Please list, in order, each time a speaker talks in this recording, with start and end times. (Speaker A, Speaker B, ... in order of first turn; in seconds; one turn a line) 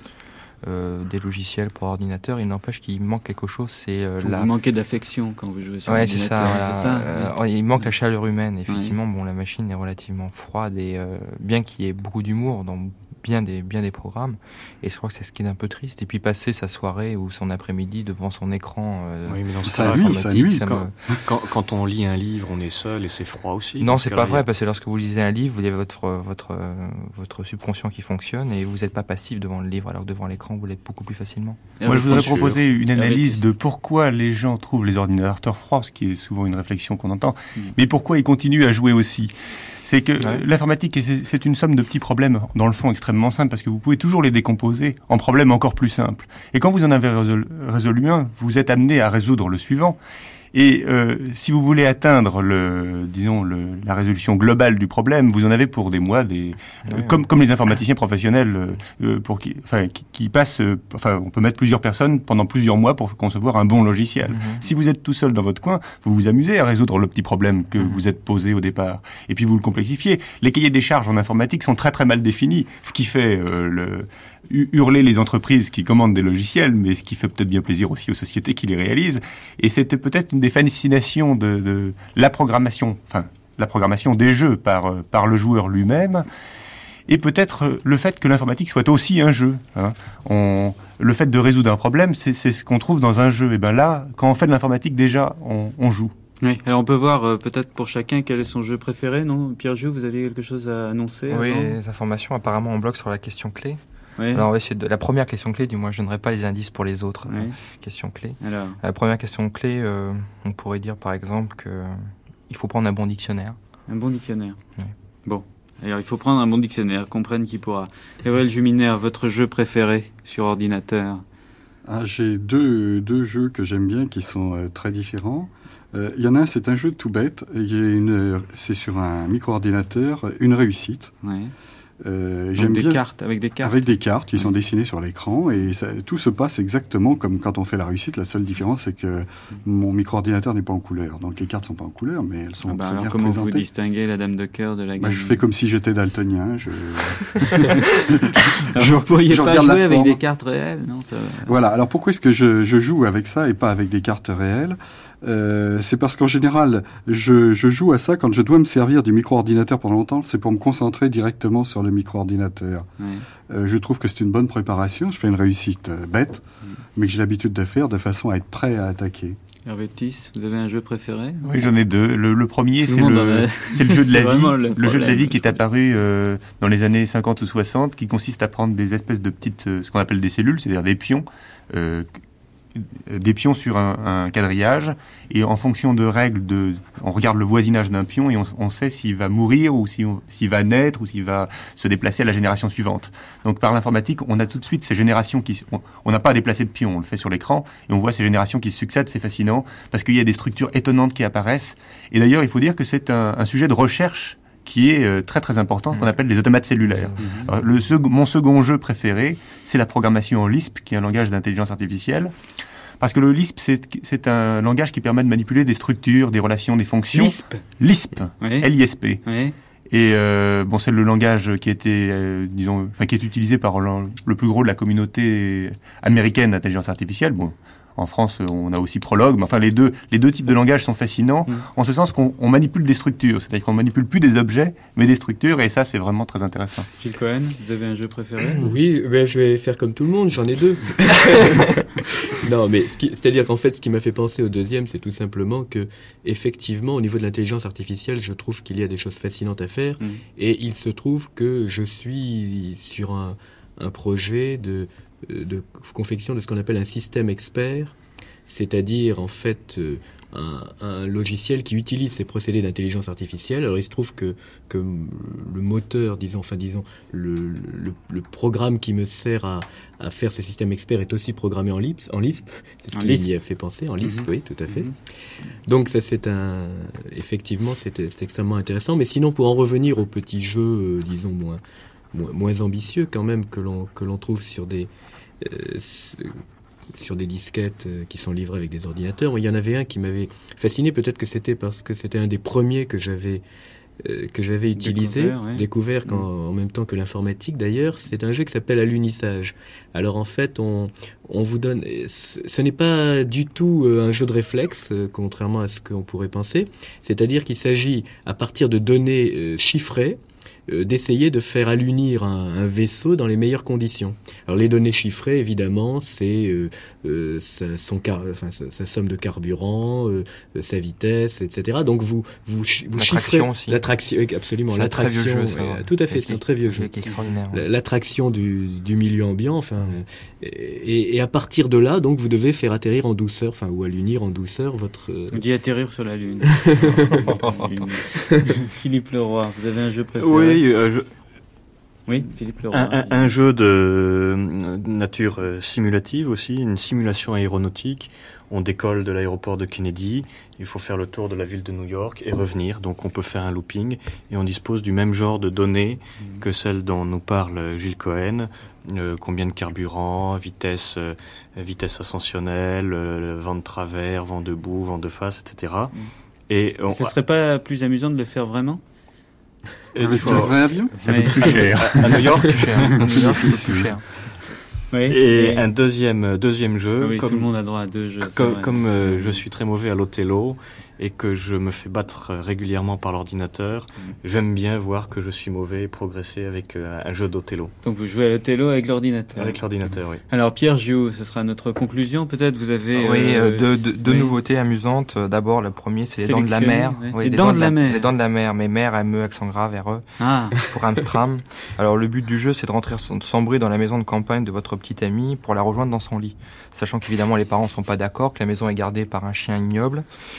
Speaker A: 0.6-4.5
Speaker B: 4.2-7.9
Speaker A: 5.8-20.9
Speaker B: 8.7-8.9
Speaker C: 19.2-24.4
Speaker D: 19.6-21.2
Speaker A: 23.8-31.7
Speaker B: 31.8-33.4
Speaker E: 31.8-50.0
Speaker E: 50.5-86.2
Speaker A: 56.9-57.2
Speaker A: 64.3-64.6
Speaker E: 87.1-96.1
Speaker B: 96.4-101.8
Speaker A: 101.3-103.8
Speaker B: 104.2-104.5
Speaker A: 104.3-113.6
Speaker B: 107.3-107.5
Speaker B: 108.4-108.8
Speaker B: 113.9-114.6
Speaker B: 115.2-121.2
Speaker D: 121.8-131.1
Speaker B: 131.2-131.5
Speaker D: 132.0-143.6
Speaker B: 132.6-134.5
Speaker B: 142.7-145.4
Speaker D: 145.0-150.2
Speaker B: 148.6-151.5
Speaker D: 151.4-162.9
Speaker B: 163.0-163.2
Speaker D: 163.5-166.4
Speaker D: 166.9-169.4
Speaker B: 169.7-171.4
Speaker E: 171.4-182.1
Speaker B: 172.8-175.4
Speaker E: 182.7-212.3
Speaker B: 207.2-207.5
Speaker E: 213.0-219.2
Speaker B: 217.1-217.6
Speaker B: 218.4-218.7
Speaker B: 219.2-219.5
Speaker E: 219.9-236.9
Speaker B: 237.0-238.7
Speaker F: 238.5-257.9
Speaker F: 258.5-281.6
Speaker B: 272.9-273.3
Speaker B: 274.0-274.9
Speaker F: 282.1-286.4
Speaker F: 286.9-293.4
Speaker F: 294.0-326.9
Speaker B: 294.8-296.2
Speaker A: 323.0-323.8
Speaker A: 324.7-327.6
Speaker F: 327.5-335.4
Speaker B: 335.3-340.6
Speaker F: 336.5-337.2
Speaker C: 340.2-341.1
Speaker B: 342.1-343.3
Speaker C: 342.7-365.9
Speaker C: 366.5-367.1
Speaker B: 366.9-368.8
Speaker C: 369.9-370.8
Speaker D: 370.0-370.9
Speaker E: 371.0-372.4
Speaker B: 371.0-371.8
Speaker C: 371.4-373.8
Speaker A: 372.3-374.1
Speaker D: 373.1-373.9
Speaker B: 374.9-375.6
Speaker C: 375.1-377.5
Speaker B: 377.0-379.4
Speaker C: 378.2-387.7
Speaker B: 387.8-389.6
Speaker C: 389.4-390.2
Speaker B: 390.3-394.3
Speaker A: 392.9-410.0
Speaker B: 396.2-398.1
Speaker B: 400.2-400.7